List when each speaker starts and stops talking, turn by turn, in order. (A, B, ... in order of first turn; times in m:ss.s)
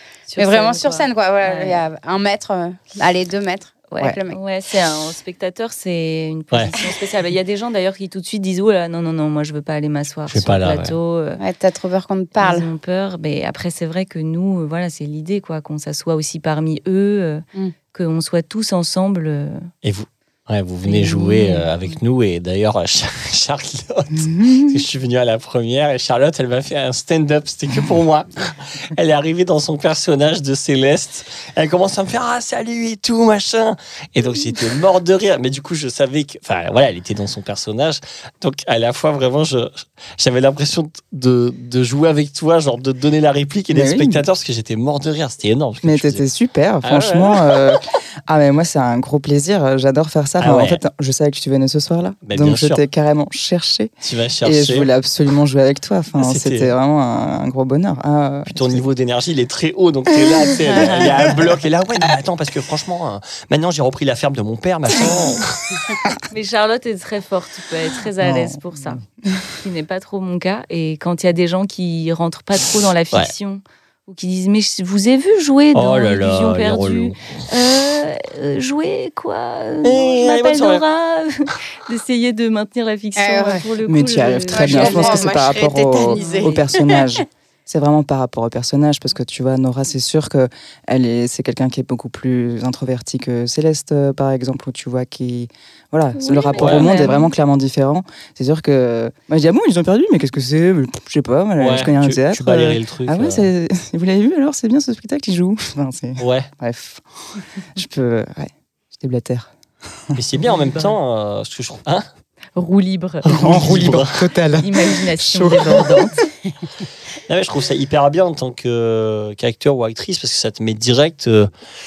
0:00.3-0:01.8 A
0:00.4-0:04.4 B
0:03.9-0:11.4 A
0:10.3-0:11.0 C
0:11.4-0:12.7 B
0:12.4-0:19.7 A
0:19.8-0:46.2 C
0:20.8-0:21.7 A
0:24.1-0:24.8 D
0:43.7-0:44.2 D
0:45.8-0:53.9 D
0:46.8-0:47.8 C
0:50.4-0:50.8 C
0:52.2-0:52.8 C
0:54.0-0:54.9 C
0:54.4-0:58.9 D
0:56.2-0:56.7 C
0:58.5-1:05.8 C
1:00.2-1:01.5 D
1:00.6-1:01.3 A
1:06.3-1:09.0 A
1:08.2-1:09.5 D
1:09.6-1:25.4 A
1:15.7-1:17.3 C
1:19.8-1:20.8 C
1:23.2-1:23.7 B
1:23.8-1:47.0 D
1:24.5-1:27.2 B
1:26.0-1:26.6 A
1:36.2-1:37.3 A
1:36.6-1:37.0 C
1:41.6-1:43.5 C
1:46.2-1:46.5 C
1:47.8-1:49.5 D
1:50.2-1:52.1 C
1:50.4-1:50.9 A
1:52.6-1:54.0 A
1:53.2-1:54.3 C
1:53.3-1:56.1 D
1:54.6-1:56.3 A
1:57.3-2:01.5 C